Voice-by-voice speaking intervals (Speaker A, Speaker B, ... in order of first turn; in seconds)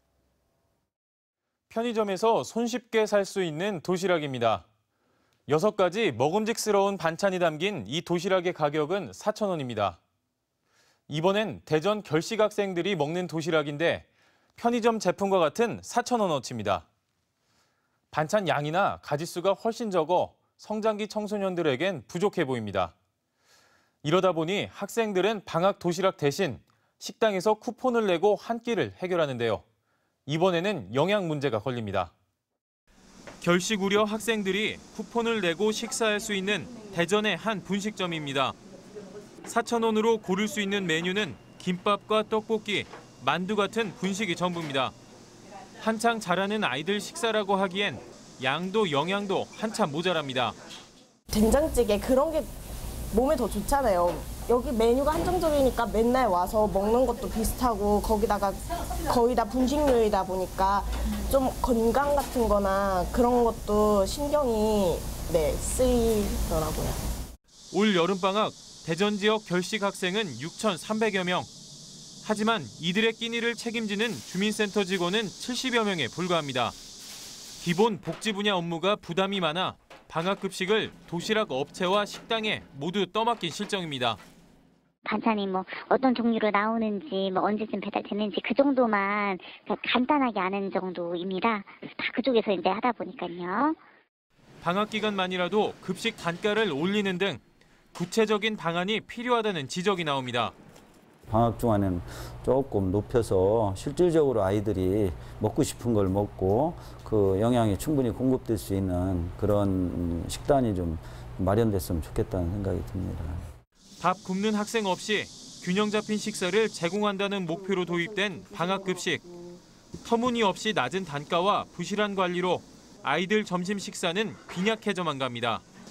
Speaker A: 1.7-4.7, 5.5-10.0, 11.1-14.1, 14.6-16.9, 18.1-22.9, 24.0-29.6, 30.3-32.1, 33.4-38.6, 39.5-45.0, 45.8-50.6, 67.7-71.5, 72.2-76.8, 77.6-84.2, 94.6-97.4, 97.9-100.5, 114.0-119.2, 120.0-125.6
Speaker B: 51.3-52.5, 53.1-67.0
Speaker C: 85.1-93.8
Speaker D: 101.3-113.4